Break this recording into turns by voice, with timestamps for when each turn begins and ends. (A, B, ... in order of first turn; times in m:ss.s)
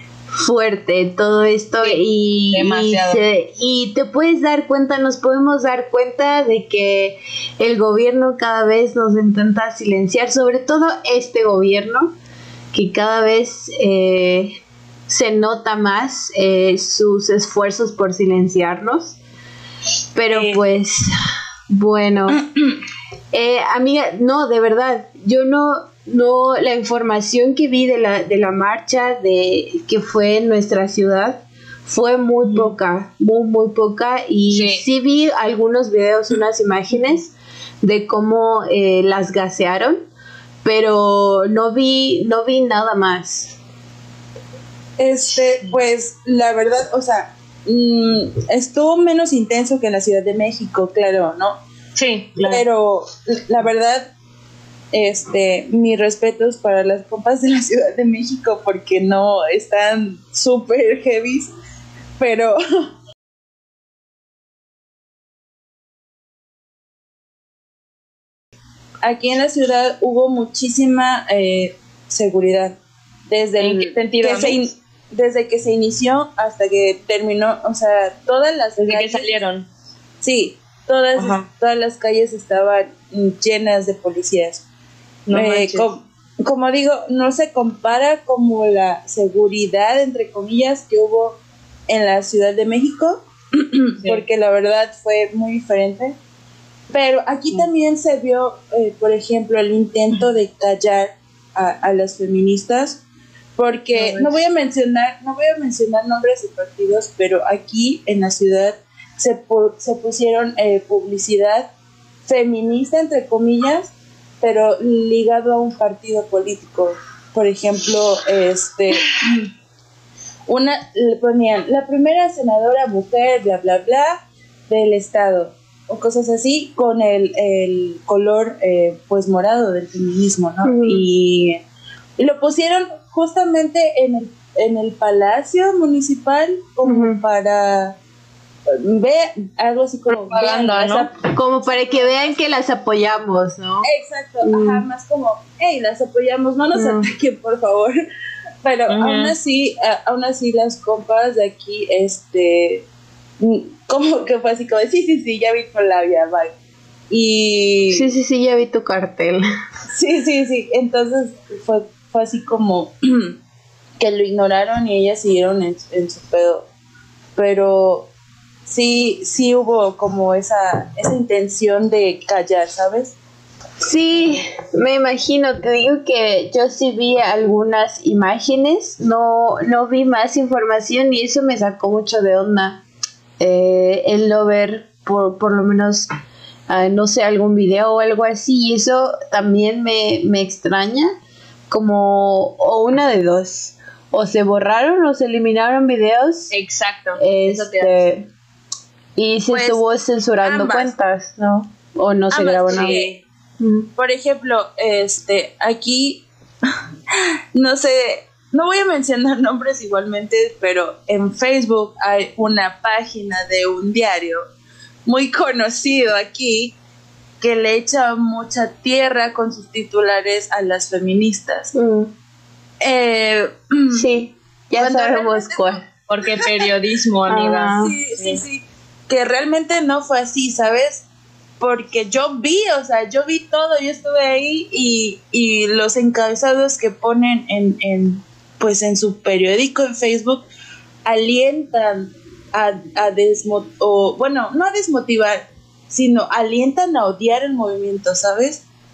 0:00.3-0:12.2 A
0:01.8-0:03.2 B
0:12.7-0:14.5 A
0:15.1-0:19.2 A
0:20.2-0:21.1 A
0:20.3-0:20.6 C
0:21.7-0:22.4 A
0:22.3-0:22.6 C
0:23.3-0:40.0 A
0:32.4-0:32.8 B
0:34.5-0:34.8 B
0:40.6-0:43.6 A
0:45.0-0:51.6 C
0:52.0-0:52.6 B
0:52.4-0:54.1 C
0:54.9-1:01.5 C
1:02.2-1:02.6 C
1:09.0-1:12.8 C
1:13.3-1:19.3 C
1:13.6-1:14.6 B
1:18.8-1:19.7 B
1:20.2-1:24.6 C
1:21.2-1:21.5 B
1:25.3-1:25.9 B
1:25.3-1:36.2 C
1:36.9-1:43.0 C
1:43.6-1:51.7 C
1:43.9-1:44.4 B
1:52.3-1:59.5 C
2:00.5-2:11.6 C
2:10.6-2:11.1 A
2:12.2-2:18.0 C
2:16.8-2:17.2 A
2:18.7-2:22.4 C
2:20.3-2:21.1 B
2:21.3-2:23.9 A
2:23.8-2:28.0 C
2:24.4-2:24.8 A
2:26.7-2:27.1 A
2:28.6-2:32.8 C
2:28.9-2:29.4 B
2:33.4-2:36.5 C
2:37.1-2:38.1 C
2:37.9-2:39.4 A
2:39.9-2:43.4 C
2:44.0-2:46.7 C
2:47.4-2:48.1 C
2:48.7-2:53.2 C
2:53.8-3:02.8 A
3:03.4-3:06.1 A
3:06.7-3:11.1 A
3:11.7-3:16.5 A
3:16.5-3:18.1 B
3:17.2-3:18.3 A
3:19.2-3:23.0 A
3:19.5-3:19.8 C
3:20.4-3:21.0 C
3:22.3-3:23.2 C
3:22.7-3:23.2 B
3:23.6-3:23.9 A
3:24.0-3:26.2 C
3:27.6-3:34.5 C
3:35.1-3:36.8 C
3:37.4-3:41.7 C
3:41.7-3:42.1 A
3:42.8-3:44.0 C
3:43.9-3:45.8 A
3:44.8-3:45.8 C
3:46.1-3:48.4 B
3:47.3-3:48.0 A
3:47.8-3:51.0 C
3:51.6-4:00.5 C
4:01.0-4:08.6 C